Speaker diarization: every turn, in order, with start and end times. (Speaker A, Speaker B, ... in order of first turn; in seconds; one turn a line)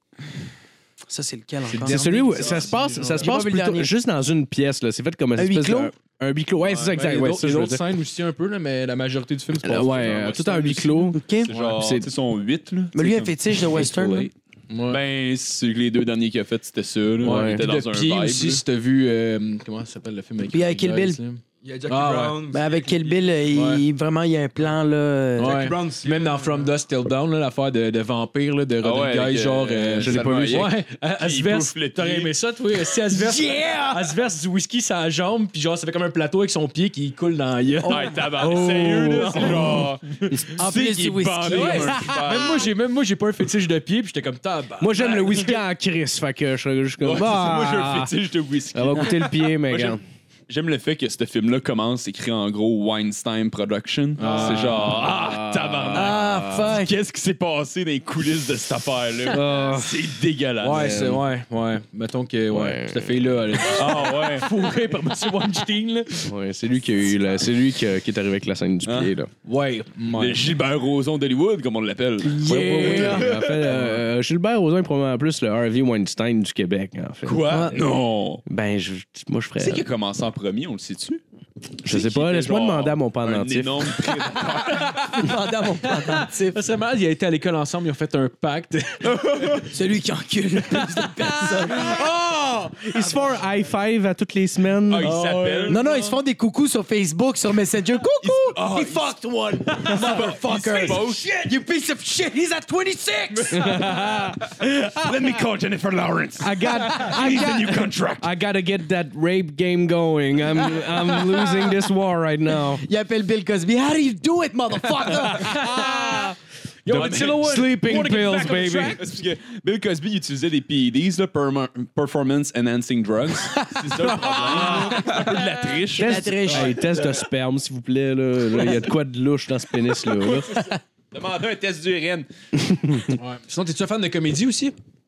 Speaker A: 1.1-2.1
Speaker B: 1.7-3.4
Speaker C: 1.8-7.8
Speaker A: 3.2-3.9
Speaker A: 5.4-5.9
Speaker D: 6.6-7.0
Speaker B: 6.9-11.9
Speaker C: 9.6-11.2
Speaker A: 11.2-11.5
Speaker D: 11.4-13.4
Speaker C: 11.8-12.1
Speaker A: 12.9-14.3
Speaker B: 13.8-15.0
Speaker D: 14.9-18.6
Speaker B: 17.2-22.4
Speaker C: 17.2-17.6
Speaker A: 20.5-21.2
Speaker E: 21.6-23.2
Speaker A: 22.5-25.6
Speaker B: 23.5-23.8
Speaker B: 25.4-38.3
Speaker E: 25.4-26.7
Speaker D: 28.8-32.3
Speaker C: 30.0-30.7
Speaker A: 33.1-34.1
Speaker A: 37.9-38.2
Speaker D: 37.9-42.7
Speaker C: 38.4-40.5
Speaker B: 39.1-40.4
Speaker A: 40.6-42.1
Speaker B: 41.5-45.6
Speaker C: 44.8-48.1
Speaker D: 47.0-61.0
Speaker C: 48.7-50.0
Speaker B: 54.2-55.1
Speaker C: 54.4-56.8
Speaker A: 55.9-56.9
Speaker C: 59.3-60.1
Speaker B: 60.6-66.3
Speaker C: 60.8-61.2
Speaker C: 62.5-63.2
Speaker D: 63.7-64.5
Speaker C: 66.3-69.3
Speaker D: 68.8-69.1
Speaker B: 69.5-70.5
Speaker D: 70.1-73.8
Speaker A: 72.2-73.4
Speaker C: 72.4-77.5
Speaker B: 72.8-74.0
Speaker D: 77.2-78.4
Speaker A: 77.5-77.8
Speaker C: 78.5-79.8
Speaker D: 79.6-81.2
Speaker C: 81.8-84.0
Speaker D: 81.8-85.3
Speaker B: 84.8-85.3
Speaker A: 85.1-86.6
Speaker B: 85.8-89.6
Speaker D: 89.1-89.6
Speaker A: 89.6-92.0
Speaker B: 91.0-91.8
Speaker C: 91.8-95.1
Speaker D: 94.9-95.9
Speaker B: 95.0-96.0
Speaker A: 95.7-104.0
Speaker D: 98.2-99.1
Speaker D: 99.7-101.3
Speaker D: 103.4-103.9
Speaker C: 103.5-105.1
Speaker D: 104.6-108.3
Speaker C: 106.4-112.8
Speaker A: 110.7-111.8
Speaker A: 112.8-116.2
Speaker B: 115.2-119.0
Speaker C: 115.5-115.9
Speaker C: 116.9-119.0
Speaker D: 116.9-117.5
Speaker D: 118.4-126.7
Speaker A: 123.5-124.0
Speaker B: 124.1-125.4
Speaker A: 124.8-125.0
Speaker C: 126.0-130.5
Speaker A: 126.0-127.0
Speaker D: 130.1-132.3
Speaker C: 132.6-133.2
Speaker B: 133.1-134.8